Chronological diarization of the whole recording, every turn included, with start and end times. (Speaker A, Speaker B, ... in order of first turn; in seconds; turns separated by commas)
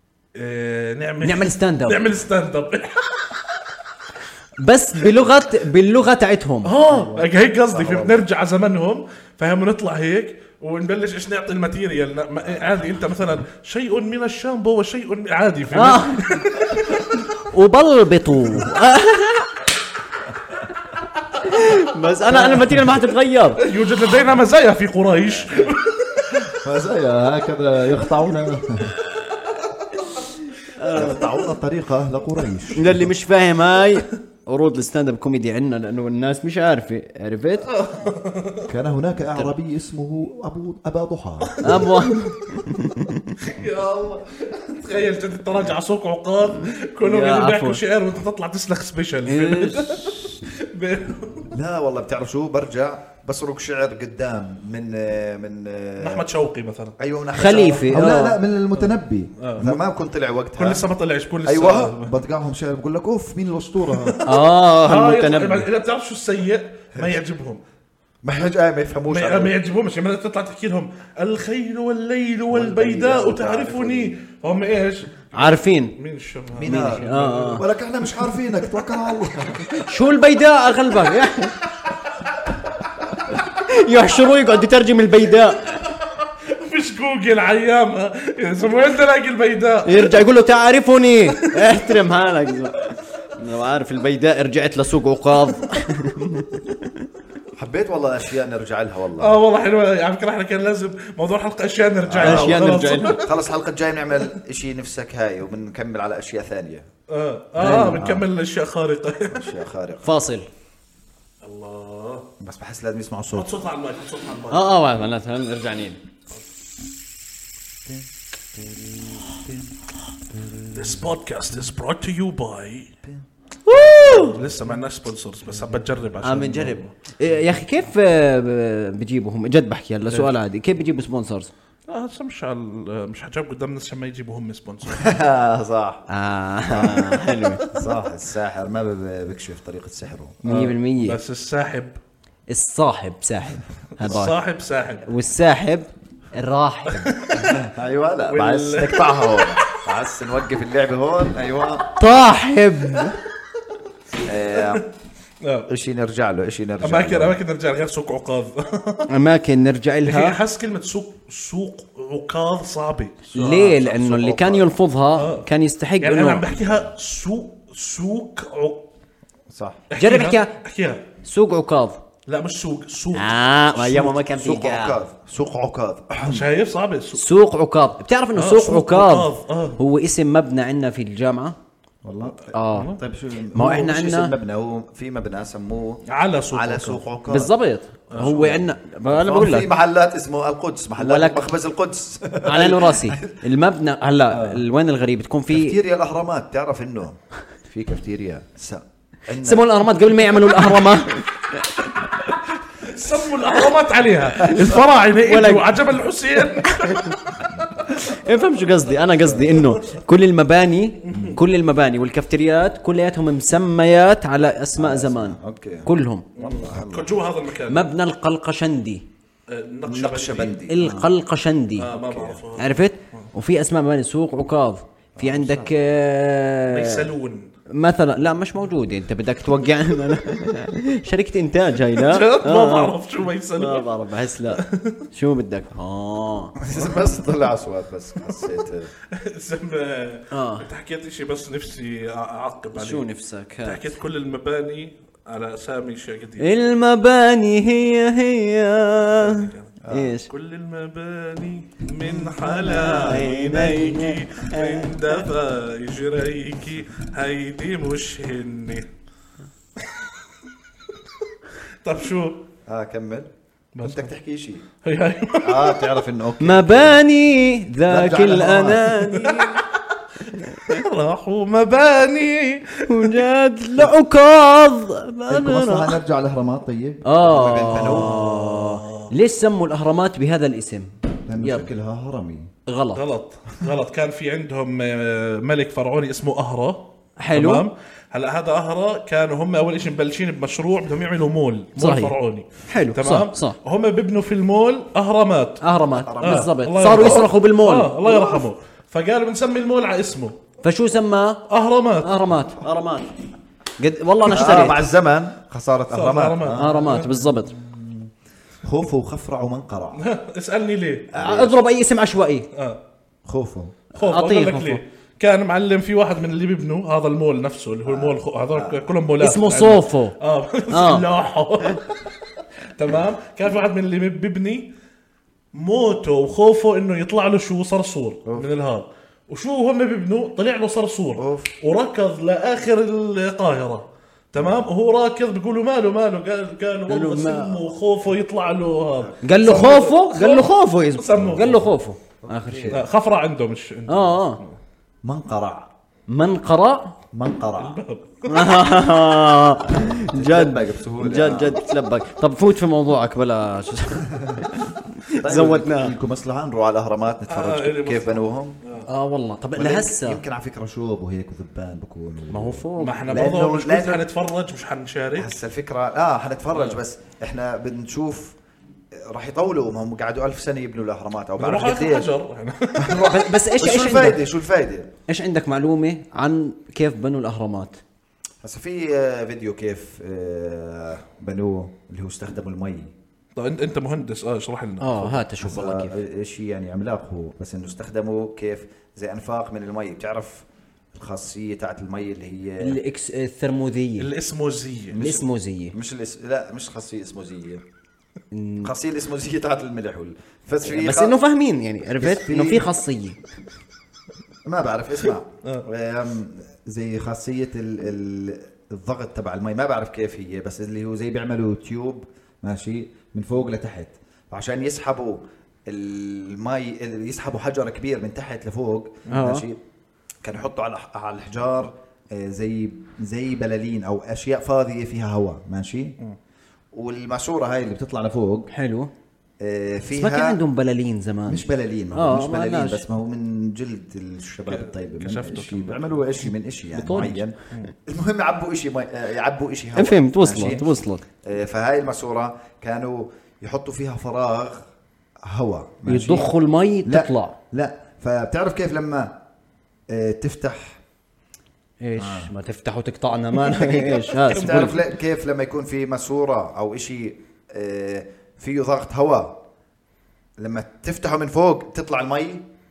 Speaker A: 0.3-3.7, Speaker B: 1.2-2.0, Speaker B: 4.6-6.7, Speaker A: 6.6-17.1, Speaker C: 6.8-8.2, Speaker C: 12.4-12.7, Speaker B: 15.7-16.3, Speaker B: 17.2-19.6, Speaker B: 21.4-23.6, Speaker A: 22.4-22.7, Speaker A: 23.6-26.4, Speaker C: 26.4-29.0, Speaker B: 30.8-31.2, Speaker C: 30.9-33.1, Speaker B: 32.7-37.7, Speaker A: 37.7-38.7, Speaker C: 38.7-41.9, Speaker A: 41.5-41.9, Speaker B: 41.6-43.3, Speaker A: 43.4-51.5, Speaker B: 47.0-47.8, Speaker B: 49.3-50.2, Speaker C: 51.5-56.3, Speaker A: 56.0-57.0, Speaker C: 57.0-60.9, Speaker B: 57.3-58.4, Speaker A: 59.4-59.8, Speaker A: 60.6-62.1, Speaker C: 61.4-64.2, Speaker A: 63.9-67.6, Speaker B: 64.2-65.7, Speaker C: 68.2-69.5, Speaker A: 69.1-77.6, Speaker C: 72.5-74.2, Speaker B: 75.3-75.9, Speaker C: 76.5-79.8, Speaker B: 76.6-77.6, Speaker B: 79.8-81.5, Speaker B: 83.5-85.7, Speaker A: 86.5-90.2, Speaker B: 89.8-96.9, Speaker A: 91.4-91.8, Speaker C: 97.5-99.4, Speaker A: 99.2-103.3, Speaker C: 102.0-106.9, Speaker B: 102.2-103.2, Speaker A: 107.1-109.5, Speaker B: 107.6-108.1, Speaker C: 107.6-108.3, Speaker C: 109.3-110.1, Speaker B: 110.0-110.5, Speaker A: 111.4-112.3, Speaker C: 112.4-113.6, Speaker A: 113.3-114.7, Speaker B: 114.5-116.0, Speaker C: 117.8-119.7, Speaker C: 120.3-121.0, Speaker A: 120.7-122.9, Speaker C: 123.0-124.7, Speaker B: 123.7-124.3, Speaker A: 124.0-126.9, Speaker B: 126.2-131.5, Speaker A: 131.9-135.1, Speaker C: 134.9-136.0, Speaker B: 136.1-137.6, Speaker C: 136.7-137.1, Speaker C: 137.7-140.4, Speaker B: 140.4-141.2, Speaker A: 140.4-142.0, Speaker B: 142.5-144.4, Speaker A: 144.0-145.0, Speaker B: 145.0-147.2, Speaker A: 147.0-147.6, Speaker C: 147.3-151.9, Speaker A: 148.3-149.5, Speaker B: 151.9-153.2, Speaker C: 154.2-154.8, Speaker A: 154.6-154.8, Speaker A: 155.4-155.7, Speaker C: 155.7-157.4, Speaker A: 156.8-159.1, Speaker B: 159.1-160.4, Speaker A: 160.1-163.9, Speaker B: 163.3-166.4, Speaker C: 163.9-164.7, Speaker A: 165.1-165.5, Speaker A: 166.0-168.9, Speaker C: 166.5-166.9, Speaker C: 169.5-169.8, Speaker A: 169.9-171.0, Speaker B: 170.0-170.5, Speaker B: 171.2-172.0, Speaker A: 172.3-174.1, Speaker B: 173.1-175.0, Speaker C: 174.1-176.5, Speaker A: 176.2-177.2, Speaker B: 177.2-181.6, Speaker A: 178.3-179.8, Speaker C: 182.0-187.5, Speaker B: 182.5-183.0, Speaker A: 182.7-183.0, Speaker B: 183.5-184.3, Speaker A: 186.1-187.0, Speaker B: 187.3-189.7, Speaker A: 188.1-188.4, Speaker C: 188.2-193.4, Speaker B: 191.0-191.5, Speaker B: 192.4-195.8, Speaker C: 194.3-194.6, Speaker C: 195.5-199.7, Speaker B: 199.4-201.3, Speaker A: 202.8-207.5, Speaker B: 205.2-205.7, Speaker B: 206.6-207.2, Speaker B: 207.9-216.3, Speaker A: 209.6-210.0, Speaker A: 211.1-211.4, Speaker C: 211.1-211.4, Speaker C: 214.8-217.2, Speaker A: 216.3-217.9, Speaker B: 217.7-219.0, Speaker A: 219.5-220.6, Speaker C: 219.8-221.1, Speaker B: 220.7-221.9, Speaker A: 221.8-223.3, Speaker C: 221.9-222.4, Speaker B: 222.6-227.1, Speaker C: 225.2-225.7, Speaker A: 226.7-227.5, Speaker B: 227.7-232.9, Speaker A: 231.9-233.9, Speaker B: 233.6-236.6, Speaker A: 234.5-235.0, Speaker C: 236.6-238.9, Speaker A: 239.1-243.1, Speaker B: 240.3-240.7, Speaker B: 242.7-243.9, Speaker A: 243.6-246.5, Speaker B: 246.4-250.3, Speaker A: 249.2-258.9, Speaker C: 249.8-250.2, Speaker B: 252.0-255.2, Speaker A: 261.8-262.4, Speaker C: 262.7-263.3, Speaker A: 263.7-264.1, Speaker C: 263.8-264.6, Speaker A: 264.8-265.8, Speaker C: 265.4-267.0, Speaker B: 266.4-269.6, Speaker C: 267.9-268.9, Speaker A: 269.1-269.7, Speaker B: 270.3-270.8, Speaker A: 270.3-273.3, Speaker B: 272.9-276.0, Speaker C: 275.3-278.3, Speaker B: 277.0-281.7, Speaker A: 277.7-279.1, Speaker C: 281.3-282.5, Speaker B: 282.7-283.0, Speaker A: 282.9-295.6, Speaker B: 287.2-287.7, Speaker B: 291.8-292.1, Speaker B: 292.7-293.6, Speaker B: 295.6-298.3, Speaker C: 296.0-297.2, Speaker A: 296.2-300.4, Speaker B: 300.6-301.4, Speaker A: 301.5-302.2, Speaker B: 302.0-303.1, Speaker B: 303.8-304.8, Speaker C: 304.3-306.7, Speaker A: 305.9-307.1, Speaker B: 306.6-307.6, Speaker C: 307.5-308.1, Speaker C: 308.6-310.0, Speaker A: 309.9-311.1, Speaker C: 311.1-311.6, Speaker B: 311.1-312.5, Speaker A: 312.5-312.8, Speaker C: 313.2-313.8, Speaker B: 314.0-314.8, Speaker A: 314.0-322.0, Speaker C: 317.9-318.9, Speaker B: 319.2-320.1, Speaker B: 320.7-321.1, Speaker A: 322.8-324.7, Speaker A: 325.5-341.6, Speaker C: 331.2-331.5, Speaker C: 334.4-334.7, Speaker B: 336.9-337.6, Speaker C: 339.0-339.7, Speaker B: 339.2-342.8, Speaker C: 341.1-341.6, Speaker C: 342.2-342.9, Speaker A: 342.7-344.6, Speaker B: 343.9-344.4, Speaker C: 345.0-345.7, Speaker B: 346.1-346.9, Speaker C: 347.1-347.8, Speaker A: 347.6-348.7, Speaker B: 348.2-355.9, Speaker C: 349.8-351.6, Speaker C: 354.1-354.5, Speaker C: 355.2-358.6, Speaker A: 357.3-358.9, Speaker B: 358.9-360.2, Speaker C: 359.6-364.1, Speaker B: 362.3-363.3, Speaker A: 362.8-365.3, Speaker C: 365.2-368.4, Speaker C: 368.9-372.1, Speaker A: 371.4-373.0, Speaker C: 372.8-374.9, Speaker B: 372.8-374.2, Speaker B: 375.1-377.8, Speaker C: 378.4-382.9, Speaker A: 383.4-385.2, Speaker B: 384.8-385.9, Speaker C: 385.4-392.8, Speaker B: 392.6-394.1, Speaker A: 394.0-395.0, Speaker C: 394.9-397.6, Speaker B: 395.0-395.8, Speaker B: 398.3-398.7, Speaker C: 398.6-401.2, Speaker B: 400.6-403.2, Speaker C: 401.9-402.7, Speaker C: 404.4-419.6, Speaker B: 419.1-419.4, Speaker C: 420.2-425.9, Speaker C: 426.7-428.5, Speaker B: 428.5-428.9, Speaker C: 429.4-430.4, Speaker B: 429.9-432.8, Speaker C: 431.3-444.6, Speaker A: 434.5-436.2, Speaker B: 436.7-437.2, Speaker B: 439.8-441.0, Speaker C: 445.3-446.3, Speaker B: 445.9-447.4, Speaker C: 446.8-449.1, Speaker C: 449.9-450.8, Speaker B: 451.8-454.8, Speaker C: 452.0-452.3, Speaker A: 453.6-454.8, Speaker C: 454.2-459.4, Speaker C: 460.4-462.4